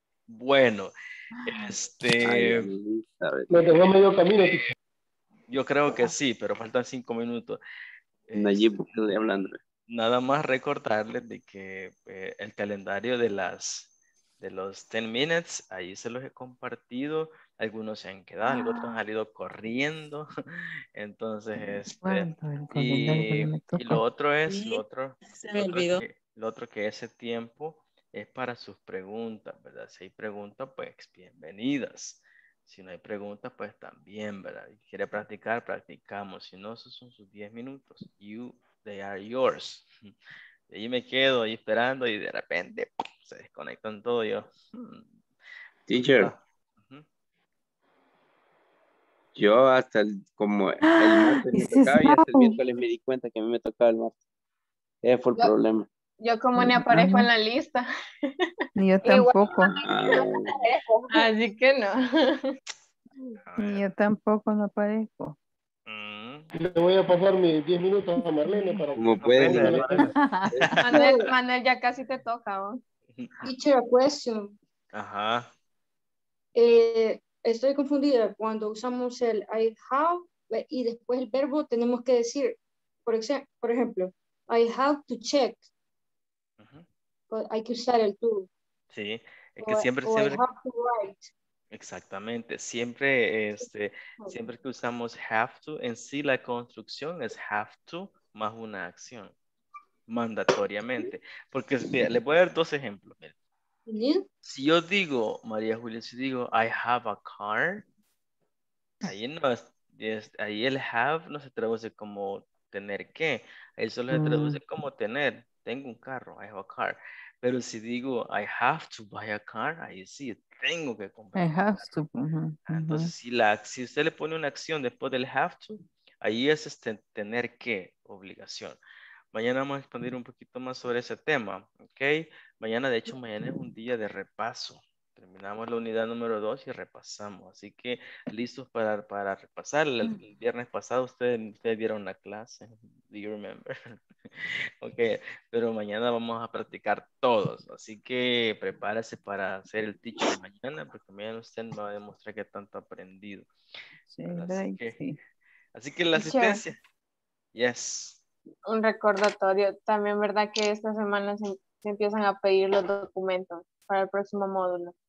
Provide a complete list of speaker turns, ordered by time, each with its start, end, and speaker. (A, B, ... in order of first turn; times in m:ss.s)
0:00.3-0:00.9 A
0:01.4-0:02.7 A
0:02.2-0:03.8 B
0:03.5-0:04.7 C
0:05.5-0:07.6 A
0:08.3-0:09.2 A
0:08.4-0:09.6 B
0:09.9-0:13.9 A
0:14.4-0:20.2 A
0:21.0-0:39.9 A
0:22.0-0:24.0 D
0:40.7-0:45.1 A
0:45.9-0:46.3 B
0:46.2-0:47.0 A
0:49.4-0:54.1 B
0:50.8-0:52.6 D
0:55.0-0:55.8 B
0:56.2-0:58.5 E
0:56.6-0:57.3 D
0:58.8-0:59.8 D
0:59.0-1:02.5 E
0:59.8-1:00.4 B
1:03.4-1:03.9 A
1:03.6-1:05.4 D
1:05.9-1:06.5 A
1:06.6-1:10.0 C
1:08.5-1:08.8 D
1:09.0-1:10.7 B
1:09.2-1:09.9 A
1:10.0-1:10.8 D
1:10.8-1:12.8 E
1:13.2-1:13.5 A
1:13.4-1:14.6 F
1:14.9-1:15.5 A
1:16.6-1:25.7 F
1:26.6-1:26.9 A
1:27.3-1:28.5 F
1:28.9-1:30.4 A
1:29.6-1:31.3 F
1:31.7-1:39.3 A
1:40.1-1:43.3 A
1:43.9-1:44.2 F
1:44.5-1:47.8 A
1:49.0-2:02.0 A
1:54.1-1:54.6 D
2:01.4-2:03.1 D
2:02.7-2:08.8 A
2:09.3-2:33.5 A
2:34.1-2:35.2 D
2:34.3-2:35.0 A
2:35.8-2:36.8 A
2:36.2-2:36.6 E
2:37.6-2:38.2 A
2:38.7-2:44.9 E